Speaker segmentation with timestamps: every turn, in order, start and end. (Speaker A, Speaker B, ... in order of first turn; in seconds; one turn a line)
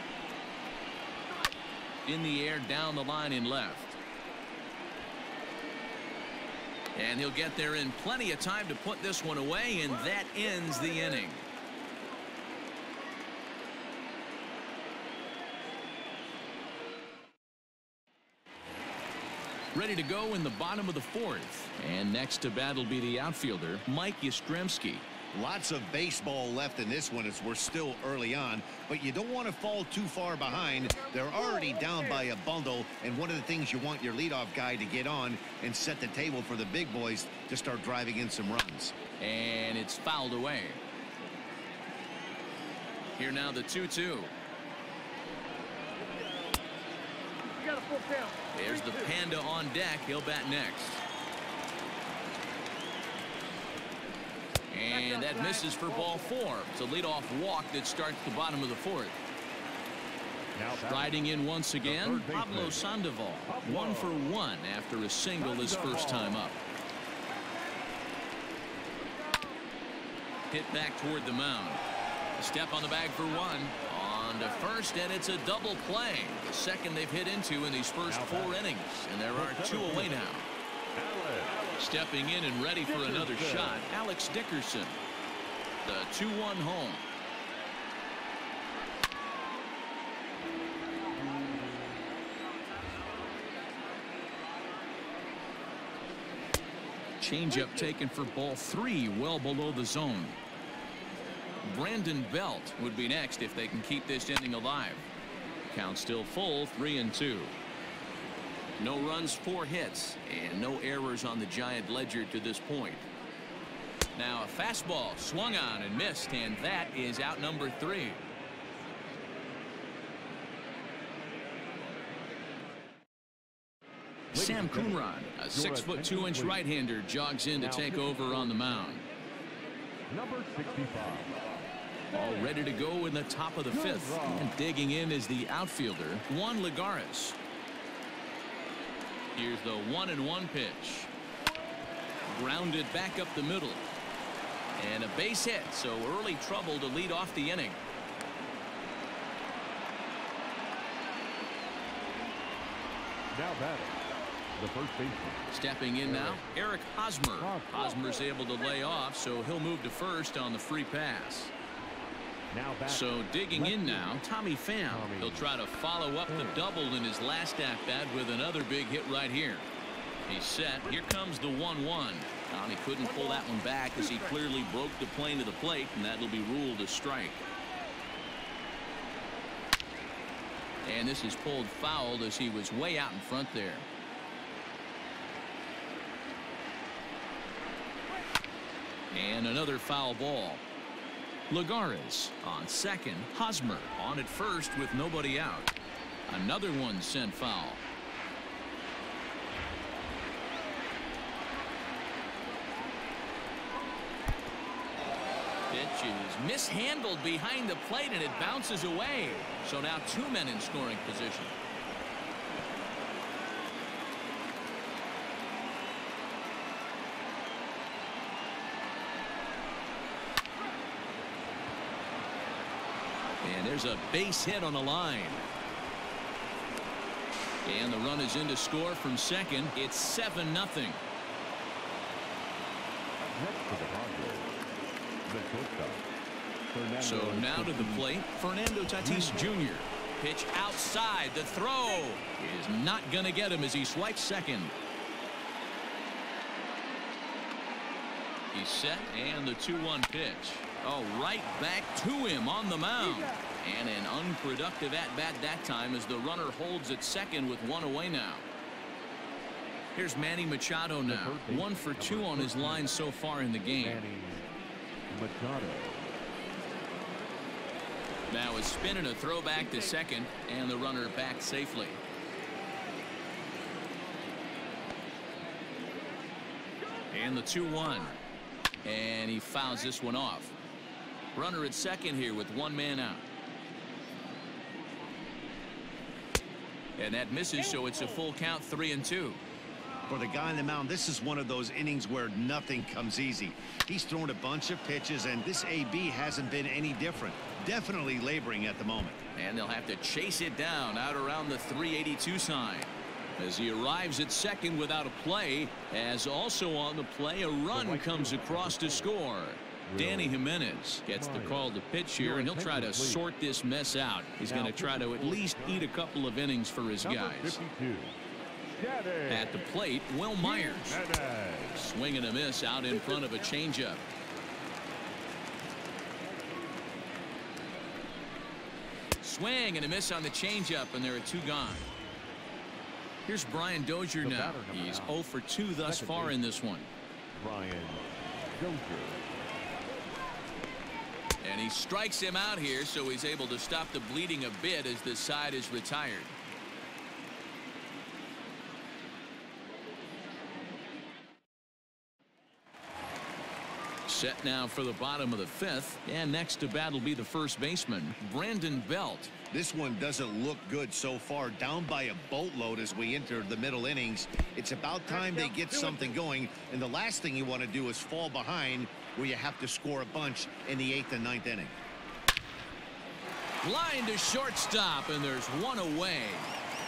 Speaker A: 2.1-4.0
Speaker A: 7.0-11.4
Speaker B: 10.1-11.2
Speaker A: 19.7-25.1
Speaker C: 25.3-39.0
Speaker B: 30.9-32.3
Speaker A: 39.2-40.8
Speaker A: 43.2-44.3
Speaker B: 47.5-49.2
Speaker A: 48.5-51.0
Speaker A: 54.7-59.2
Speaker B: 54.9-56.3
Speaker D: 60.6-61.2
Speaker A: 60.8-66.6
Speaker D: 61.8-62.9
Speaker D: 63.5-64.2
Speaker D: 65.4-66.5
Speaker A: 70.5-71.8
Speaker A: 72.4-80.5
Speaker D: 78.0-78.7
Speaker D: 79.3-80.2
Speaker D: 81.0-81.7
Speaker A: 81.8-85.0
Speaker D: 82.8-83.9
Speaker A: 85.8-87.0
Speaker A: 97.2-100.4
Speaker B: 97.5-98.0
Speaker A: 101.6-105.1
Speaker A: 105.7-107.5
Speaker A: 108.8-113.1
Speaker A: 114.2-118.3
Speaker D: 124.3-126.6
Speaker A: 124.3-129.1
Speaker D: 127.5-129.0
Speaker D: 130.1-131.3
Speaker A: 132.1-137.4
Speaker B: 132.2-132.5
Speaker D: 133.7-134.6
Speaker A: 139.3-141.1
Speaker A: 142.2-143.8
Speaker A: 144.8-147.8
Speaker D: 153.3-154.0
Speaker D: 154.6-155.5
Speaker A: 155.5-161.5
Speaker D: 156.1-156.4
Speaker D: 157.4-157.9
Speaker D: 162.5-164.2
Speaker A: 162.9-169.7
Speaker D: 164.9-165.5
Speaker D: 166.3-166.7
Speaker A: 170.3-177.4
Speaker B: 173.0-174.4
Speaker A: 180.8-183.9
Speaker A: 189.1-190.6
Speaker A: 191.5-195.7
Speaker A: 196.3-197.8
Speaker A: 205.7-211.5
Speaker A: 223.4-225.4
Speaker A: 227.7-231.0
Speaker D: 233.2-234.5
Speaker D: 235.3-236.0
Speaker D: 236.7-238.2
Speaker A: 237.0-244.7
Speaker D: 239.0-239.6
Speaker A: 248.5-258.5
Speaker B: 253.0-253.4
Speaker A: 259.9-264.0
Speaker D: 261.1-262.9
Speaker D: 263.7-264.5
Speaker D: 265.1-266.1
Speaker A: 268.3-272.0
Speaker B: 269.6-270.0
Speaker A: 277.1-278.2
Speaker B: 277.3-278.1
Speaker A: 278.8-280.6
Speaker A: 281.3-283.3
Speaker A: 287.0-289.4
Speaker B: 287.6-288.2
Speaker C: 290.1-299.2
Speaker A: 299.4-317.6
Speaker D: 307.7-309.1
Speaker D: 309.9-310.4
Speaker D: 311.1-313.2
Speaker D: 314.4-315.9
Speaker D: 317.0-318.1
Speaker D: 318.8-319.6
Speaker A: 319.3-321.0
Speaker D: 320.4-321.8
Speaker A: 321.8-324.0
Speaker B: 322.9-323.5
Speaker A: 329.2-331.9
Speaker A: 333.3-336.9
Speaker D: 334.2-335.2
Speaker D: 335.8-336.4
Speaker D: 337.4-339.2
Speaker A: 341.4-346.3
Speaker A: 354.1-359.3
Speaker C: 359.5-371.7
Speaker B: 365.1-366.2
Speaker A: 373.6-376.5